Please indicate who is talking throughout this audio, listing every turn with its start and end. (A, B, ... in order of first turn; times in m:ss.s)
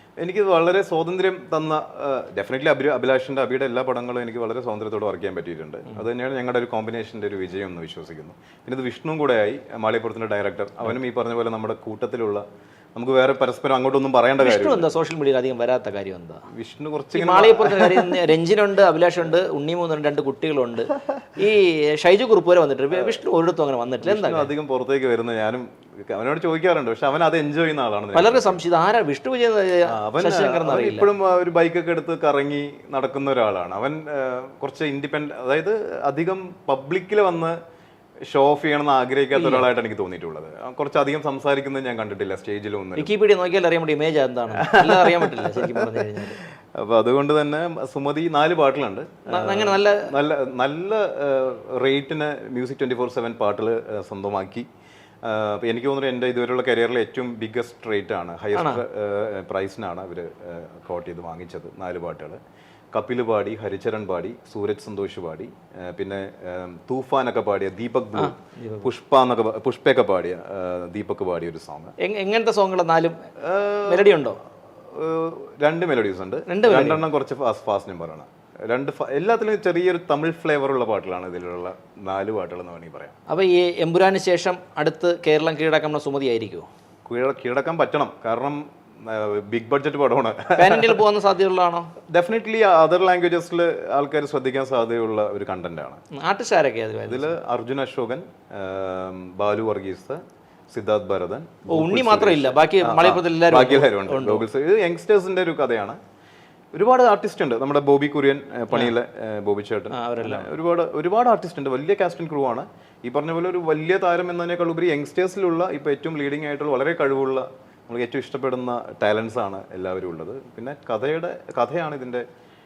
0:00.2-0:12.4 A
0:13.0-0:14.9 A
0:14.4-0:16.4 B
0:16.5-0:18.2 A
0:17.1-0:24.5 B
0:22.9-0:23.2 A
0:24.0-0:28.6 A
0:28.1-0:31.1 B
0:29.9-0:37.6 A
0:38.3-0:43.1 A
0:39.3-0:39.7 B
0:43.0-0:46.4 B
0:44.5-0:54.6 A
0:49.3-0:50.1 B
0:55.2-1:02.4 A
0:58.5-0:58.8 B
1:02.9-1:11.9 A
1:08.1-1:08.9 B
1:12.0-1:13.2 B
1:13.4-1:14.3 A
1:13.8-1:14.4 B
1:14.9-1:23.1 A
1:16.5-1:17.0 B
1:23.3-1:26.7 B
1:27.0-1:31.0 A
1:30.5-1:31.9 B
1:32.1-1:36.0 A
1:36.1-1:37.3 B
1:37.0-1:40.2 A
1:40.7-1:46.0 A
1:41.7-1:44.4 B
1:46.7-2:02.2 A
1:49.9-1:50.5 B